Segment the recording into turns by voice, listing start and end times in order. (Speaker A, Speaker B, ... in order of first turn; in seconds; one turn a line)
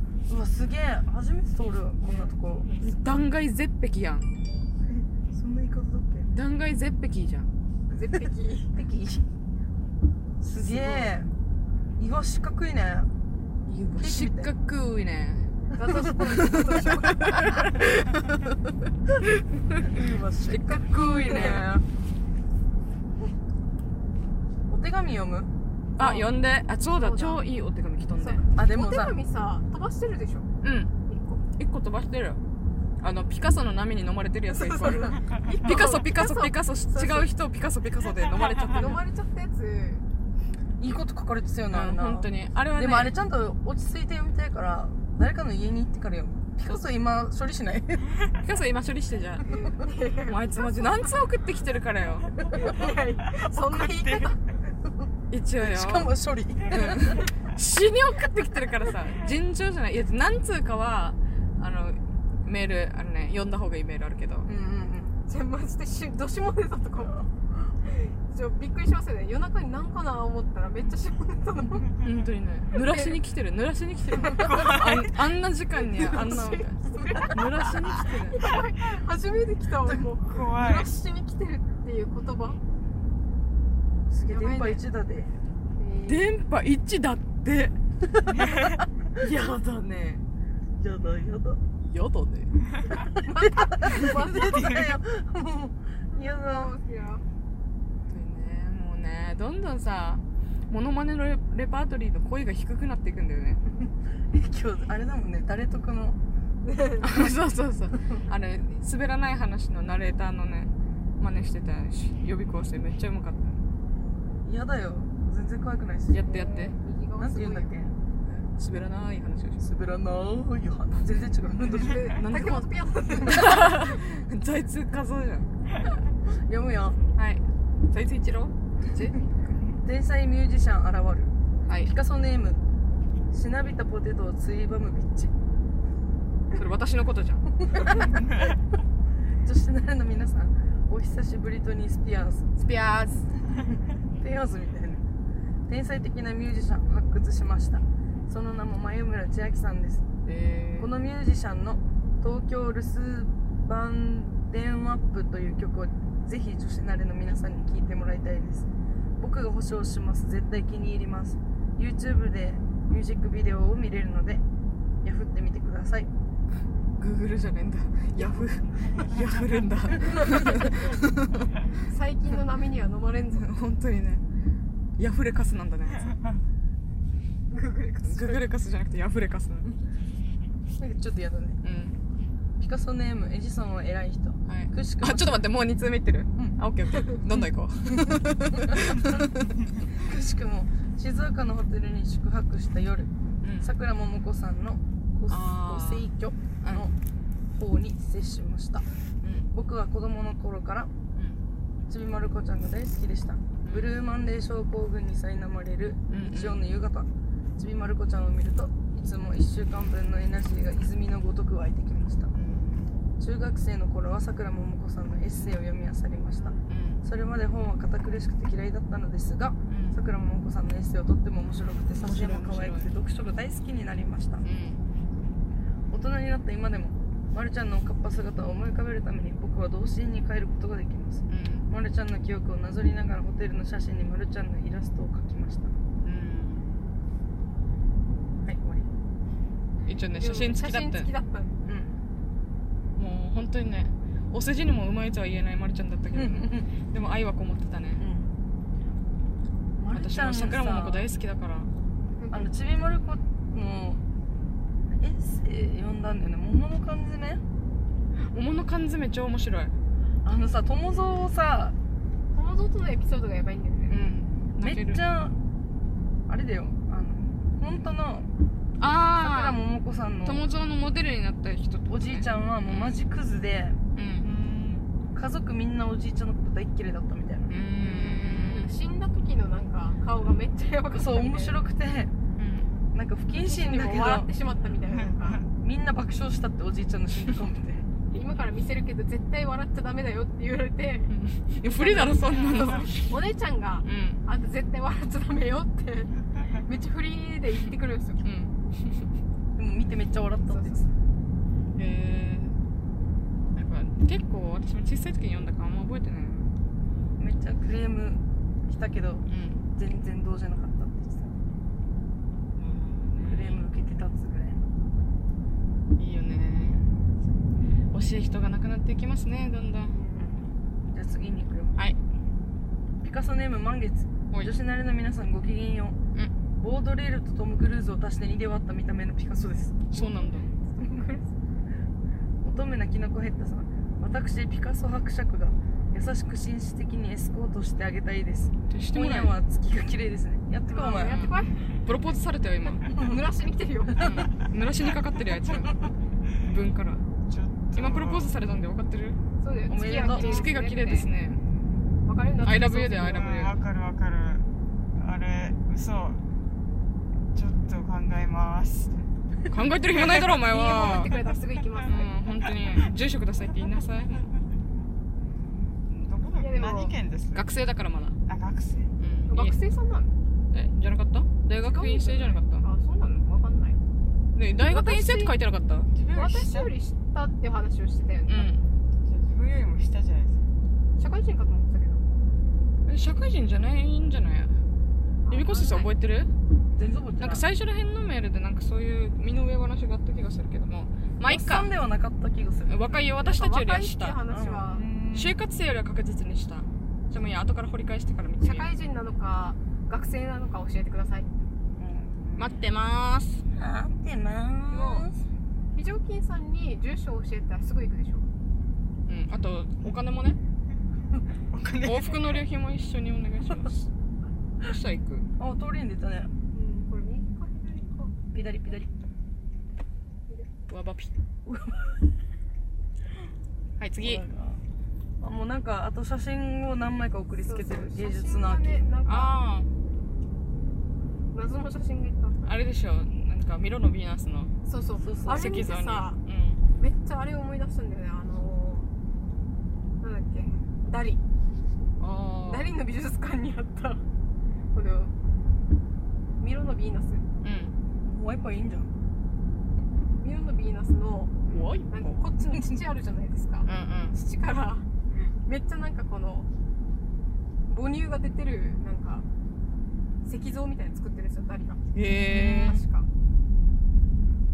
Speaker A: 0.3-2.7
Speaker B: 2.0-3.0
Speaker C: 2.8-4.3
Speaker A: 4.9-6.3
Speaker C: 6.3-7.5
Speaker B: 7.9-8.7
Speaker A: 8.7-9.3
Speaker A: 10.4-11.3
Speaker B: 10.7-11.1
Speaker A: 12.0-13.1
Speaker C: 13.7-15.5
Speaker A: 14.0-14.5
Speaker B: 15.7-17.6
Speaker C: 16.1-18.3
Speaker A: 19.9-21.9
Speaker C: 20.5-21.7
Speaker B: 20.6-21.6
Speaker A: 24.7-25.5
Speaker C: 26.0-28.4
Speaker B: 26.0-26.2
Speaker B: 26.9-27.4
Speaker B: 28.2-30.5
Speaker A: 28.6-29.2
Speaker C: 30.6-30.9
Speaker B: 31.1-31.4
Speaker C: 31.6-32.4
Speaker C: 33.0-39.0
Speaker B: 34.5-37.3
Speaker B: 38.7-40.0
Speaker A: 40.8-48.1
Speaker C: 41.7-43.1
Speaker C: 48.4-49.6
Speaker B: 49.5-51.1
Speaker C: 50.2-52.5
Speaker B: 52.5-54.4
Speaker D: 53.8-54.3
Speaker C: 55.3-56.1
Speaker A: 55.6-57.2
Speaker C: 56.7-64.5
Speaker A: 64.5-65.2
Speaker B: 65.3-67.2
Speaker B: 67.8-71.9
Speaker C: 72.0-78.4
Speaker B: 72.7-73.2
Speaker B: 74.2-75.1
Speaker B: 75.8-77.7
Speaker B: 78.3-82.6
Speaker D: 80.2-80.9
Speaker A: 84.1-85.3
Speaker B: 84.3-84.8
Speaker B: 85.8-86.4
Speaker C: 86.1-87.8
Speaker A: 88.2-88.5
Speaker D: 88.3-88.8
Speaker C: 89.2-90.2
Speaker A: 90.8-91.6
Speaker C: 91.8-92.5
Speaker B: 93.2-94.8
Speaker A: 93.4-96.7
Speaker D: 94.4-95.0
Speaker B: 96.1-97.2
Speaker C: 98.1-103.6
Speaker A: 104.3-106.2
Speaker B: 106.6-107.2
Speaker C: 107.0-113.6
Speaker A: 113.9-116.2
Speaker C: 116.1-116.8
Speaker B: 116.2-117.7
Speaker A: 117.2-118.0
Speaker C: 118.2-119.7
Speaker A: 119.6-122.1
Speaker B: 121.7-123.8
Speaker C: 122.1-125.5
Speaker A: 123.1-123.5
Speaker A: 126.5-127.0
Speaker C: 127.2-129.3
Speaker A: 129.8-132.6
Speaker C: 131.7-131.9
Speaker A: 133.3-135.3
Speaker C: 136.5-137.5
Speaker A: 137.6-138.2
Speaker A: 139.4-142.5
Speaker C: 142.6-143.3
Speaker A: 144.2-145.1
Speaker A: 145.7-150.1
Speaker C: 150.3-150.9
Speaker A: 150.8-158.7
Speaker A: 159.2-164.4
Speaker A: 165.0-166.1
Speaker C: 167.0-171.5
Speaker B: 171.8-173.5
Speaker C: 173.3-174.2
Speaker C: 175.0-176.2
Speaker B: 177.5-178.4
Speaker C: 178.0-179.8
Speaker A: 180.8-181.6
Speaker C: 181.6-182.0
Speaker A: 182.6-185.5
Speaker C: 184.5-189.5
Speaker A: 187.9-189.2
Speaker A: 189.9-196.9
Speaker C: 193.4-193.7
Speaker C: 195.3-196.1
Speaker C: 196.6-196.9
Speaker A: 197.5-198.9
Speaker C: 199.2-199.5
Speaker A: 199.5-200.9
Speaker C: 201.2-201.4
Speaker A: 201.9-212.3
Speaker C: 203.6-203.9
Speaker C: 206.1-206.6
Speaker C: 212.3-212.9
Speaker A: 213.2-224.4
Speaker B: 216.3-216.7
Speaker C: 216.7-217.0
Speaker C: 219.7-220.0
Speaker C: 222.0-222.9
Speaker C: 224.4-224.8
Speaker A: 225.9-235.7
Speaker C: 231.3-231.7
Speaker C: 236.0-236.8
Speaker A: 238.4-238.9
Speaker C: 239.9-241.1
Speaker B: 240.1-241.5
Speaker A: 241.6-242.0
Speaker C: 243.0-248.0
Speaker A: 246.1-246.7
Speaker A: 248.0-248.3
Speaker A: 249.8-251.1
Speaker C: 249.9-251.7
Speaker B: 252.2-252.5
Speaker A: 252.3-254.0
Speaker A: 254.9-257.4
Speaker C: 258.2-259.7
Speaker A: 260.2-261.8
Speaker B: 260.8-261.3
Speaker B: 262.3-264.0
Speaker C: 263.9-265.0
Speaker A: 264.6-265.4
Speaker A: 266.3-268.3
Speaker C: 268.8-269.6
Speaker A: 269.1-270.4
Speaker C: 270.2-273.0
Speaker A: 271.9-273.8
Speaker C: 273.9-274.3
Speaker D: 274.2-274.9
Speaker A: 275.1-277.5
Speaker C: 277.5-278.8
Speaker B: 277.8-281.6
Speaker A: 280.9-282.1
Speaker C: 282.4-282.7
Speaker A: 282.9-284.3
Speaker B: 283.4-285.4
Speaker A: 285.6-287.9
Speaker B: 288.1-298.2
Speaker C: 291.1-293.1
Speaker C: 293.8-294.2
Speaker C: 298.2-298.6
Speaker A: 299.6-300.9
Speaker B: 300.5-300.9
Speaker C: 301.8-302.6
Speaker C: 303.5-306.5
Speaker A: 307.2-311.4
Speaker C: 309.3-309.6
Speaker C: 312.6-313.6
Speaker A: 313.2-314.6
Speaker C: 316.0-316.9
Speaker C: 317.9-320.0
Speaker B: 319.9-320.4
Speaker A: 320.9-321.8
Speaker A: 323.0-326.0
Speaker A: 326.6-329.8
Speaker C: 329.9-330.5
Speaker B: 329.9-331.3
Speaker A: 332.4-341.3
Speaker C: 338.7-339.4
Speaker B: 340.7-341.8
Speaker C: 341.1-342.9
Speaker A: 342.9-343.2
Speaker B: 342.9-344.3
Speaker C: 344.0-347.0
Speaker D: 347.3-348.3
Speaker C: 347.7-351.4
Speaker B: 349.4-351.1
Speaker A: 349.7-350.5
Speaker B: 352.1-353.3
Speaker C: 352.4-353.6
Speaker D: 353.0-356.2
Speaker D: 357.3-359.0
Speaker C: 359.5-361.2
Speaker B: 360.3-362.2
Speaker C: 361.9-364.3
Speaker D: 365.9-367.5
Speaker B: 366.4-367.0
Speaker C: 367.3-368.2
Speaker D: 368.3-368.9
Speaker C: 369.0-369.6
Speaker B: 369.3-370.1
Speaker C: 370.5-372.7
Speaker B: 371.6-373.8
Speaker C: 374.4-375.9
Speaker B: 374.6-375.4
Speaker D: 375.9-376.7
Speaker B: 376.1-378.6
Speaker C: 378.3-378.6
Speaker D: 379.1-380.4
Speaker B: 381.0-382.1
Speaker C: 382.9-384.5
Speaker B: 385.3-385.9
Speaker C: 385.3-386.3
Speaker A: 386.8-387.4
Speaker C: 387.2-391.7
Speaker A: 391.2-393.0
Speaker C: 392.7-394.2
Speaker B: 393.2-394.8
Speaker A: 394.3-394.8
Speaker D: 394.7-395.4
Speaker C: 395.1-398.7
Speaker B: 398.4-401.3
Speaker D: 401.8-402.6
Speaker C: 402.4-403.4
Speaker A: 403.6-405.1
Speaker B: 404.7-405.1
Speaker B: 405.7-408.3
Speaker C: 409.1-410.4
Speaker D: 411.5-412.4
Speaker C: 411.8-413.9
Speaker C: 414.6-415.3
Speaker A: 415.4-416.3
Speaker B: 416.5-418.8
Speaker A: 418.3-418.9
Speaker C: 420.7-421.1
Speaker A: 421.5-422.0
Speaker C: 423.8-424.2
Speaker A: 424.0-424.6
Speaker A: 425.2-429.0
Speaker B: 427.4-429.4
Speaker C: 429.1-429.7
Speaker B: 431.3-432.5
Speaker C: 432.4-434.5
Speaker B: 434.7-436.2
Speaker A: 435.0-435.5
Speaker C: 435.3-436.6
Speaker B: 436.8-438.9
Speaker B: 440.0-441.2
Speaker C: 442.0-442.8
Speaker B: 442.4-444.0
Speaker B: 444.7-445.1
Speaker B: 446.4-447.2
Speaker C: 447.4-447.8
Speaker A: 448.0-448.9
Speaker B: 450.2-456.5
Speaker C: 451.5-452.3
Speaker C: 453.7-454.2
Speaker B: 457.7-459.3
Speaker B: 460.2-463.1
Speaker C: 461.9-462.8
Speaker A: 462.3-462.8